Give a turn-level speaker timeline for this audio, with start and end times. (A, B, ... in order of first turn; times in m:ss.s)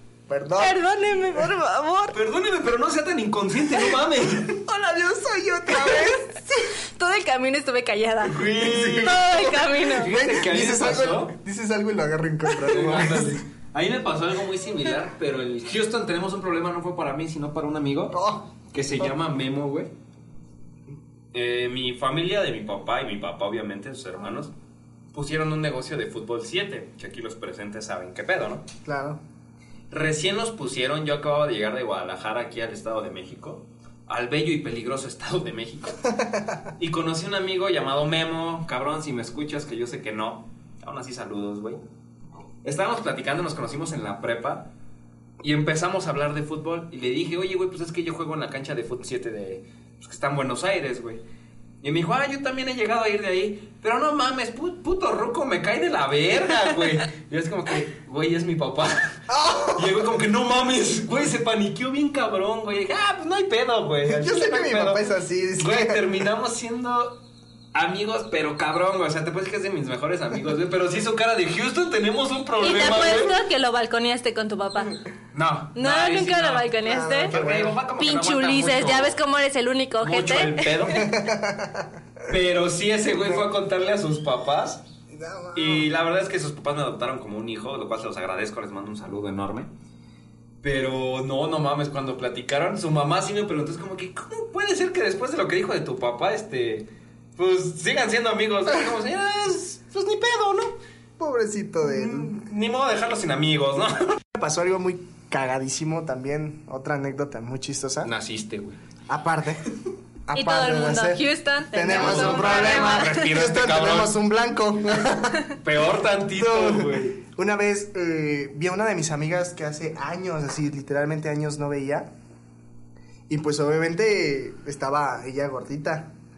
0:00.3-0:00.8 A
0:00.6-0:02.2 B
0:02.1-0:04.6 C
0:04.6-0:06.7 A
0:05.8-0:06.2 B
0:06.9-0:08.5 B
0:08.3-0:09.3 C
0:08.5-0:13.4 A
0:09.0-0:10.1 B
0:09.8-0:11.3 C
0:12.6-0:18.2 C
0:18.1-0:19.1 A
0:18.7-0:19.9 C
0:21.3-0:24.5 C
0:25.1-0:28.6 C
0:28.8-0:29.2 A
0:29.9-0:36.0 C
0:36.2-0:36.6 A
0:36.8-0:41.8 C
0:42.6-0:44.7 C
0:45.4-0:51.2 C
0:51.8-0:59.2 C
0:59.3-1:00.1 A
0:59.7-1:05.0 C
1:04.0-1:06.2 A
1:05.6-1:07.2 C
1:07.7-1:13.3 C
1:12.6-1:15.0 B
1:15.3-1:16.7 C
1:15.8-1:17.3 B
1:16.8-1:17.8 A
1:17.3-1:19.2 C
1:18.0-1:20.8 B
1:20.0-1:21.2 C
1:20.9-1:22.3 A
1:22.3-1:24.8 C
1:25.1-1:25.9 A
1:25.5-1:29.7 C
1:30.6-1:40.8 C
1:41.2-1:42.3 A
1:41.8-1:44.2 C
1:44.3-1:48.1 A
1:48.0-1:48.8 C
1:49.1-1:49.7 A
1:50.3-1:55.4 A
1:50.4-1:53.2 B
1:51.9-1:54.1 C
1:55.6-1:57.2 C
1:56.4-2:02.1 A
2:03.3-2:06.1 A